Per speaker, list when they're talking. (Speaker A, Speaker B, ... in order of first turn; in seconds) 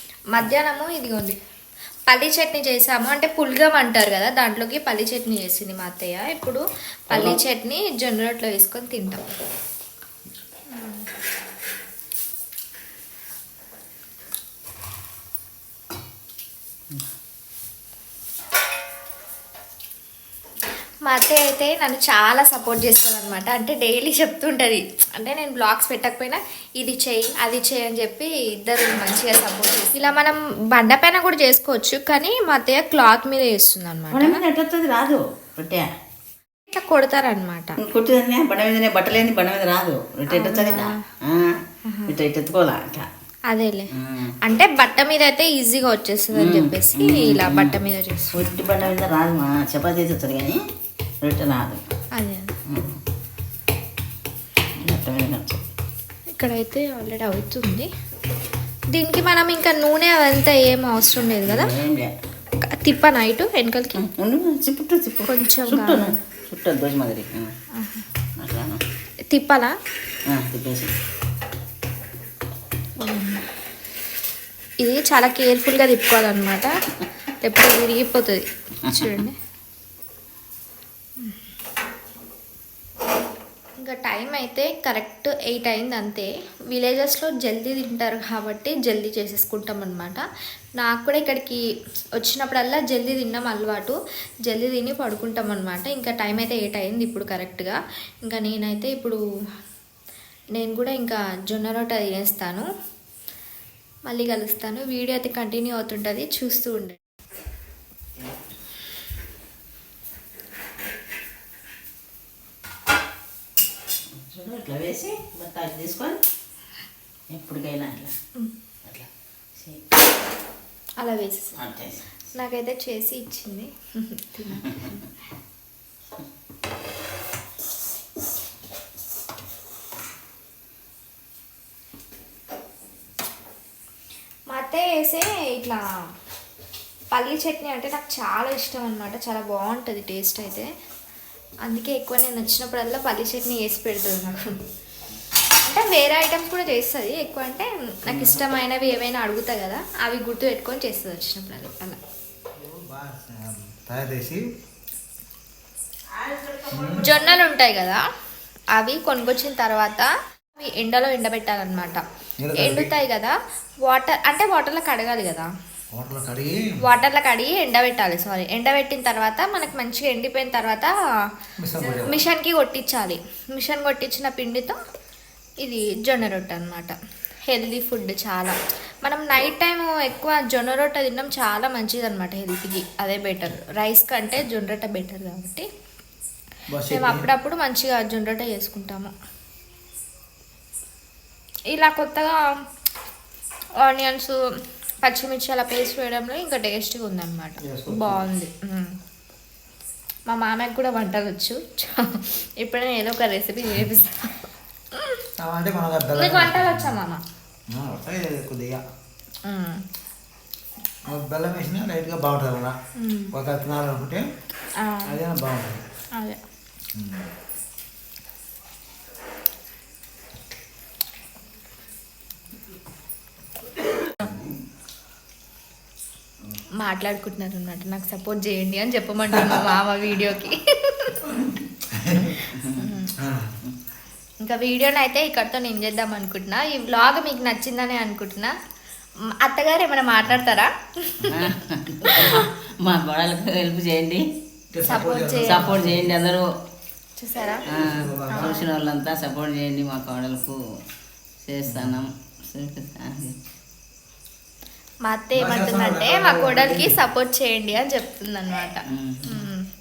Speaker A: 0.3-1.4, 2.1-9.2, 10.7-11.1, 21.1-34.4, 36.7-37.8, 40.3-41.0, 41.9-42.1, 43.5-43.9, 44.4-48.5, 52.1-52.6, 56.3-57.9, 58.9-61.7, 62.6-64.0, 65.3-66.2, 67.7-68.1, 69.3-69.8, 73.0-73.4, 74.8-76.7, 77.4-79.4, 83.8-90.2, 90.8-91.6, 92.2-94.0, 94.5-99.2, 100.6-102.7, 104.1-107.0, 121.0-121.5, 122.3-125.1, 134.5-135.8, 137.1-140.7, 141.6-144.5, 145.6-152.0, 156.9-158.0, 158.8-162.0, 162.6-163.3, 163.8-165.5, 166.8-170.9, 171.9-174.8, 175.6-177.0, 177.5-185.7, 186.9-189.1, 191.7-192.4, 193.8-194.4, 195.0-198.9, 200.3-204.4, 204.9-205.2, 206.2-207.2, 209.5-209.8, 213.0-213.3, 214.8-215.2, 216.1-216.4, 226.8-231.2, 232.7-233.1, 234.4-238.5, 239.3-241.5, 242.1-242.5, 244.9-245.8, 247.2-247.7, 248.3-248.7, 255.1-259.7
Speaker B: 7.1-7.4, 34.1-35.9, 37.8-43.1, 44.0-44.3, 46.3-47.8, 48.3-50.6, 51.2-51.8, 52.7-53.0, 54.8-55.6, 61.5-62.1, 64.0-67.5, 68.4-68.8, 70.3-70.9, 114.2-116.2, 117.3-118.2, 118.8-119.8, 121.5-122.0, 148.1-148.4, 156.2-156.9, 232.5-232.9, 241.3-244.2, 245.4-246.5, 247.7-250.6, 251.4-253.4, 258.9-259.4
Speaker C: 152.6-154.4, 156.7-157.1, 162.4-162.9, 165.9-166.8, 171.6-172.2, 186.7-187.3, 197.6-198.3, 205.4-207.0, 207.7-208.8, 211.1-212.8, 213.3-214.3, 215.1-215.9, 216.9-217.3, 224.2-224.5, 231.9-232.4, 233.2-233.6, 244.7-246.1, 247.7-248.6, 251.7-252.0, 255.4-257.0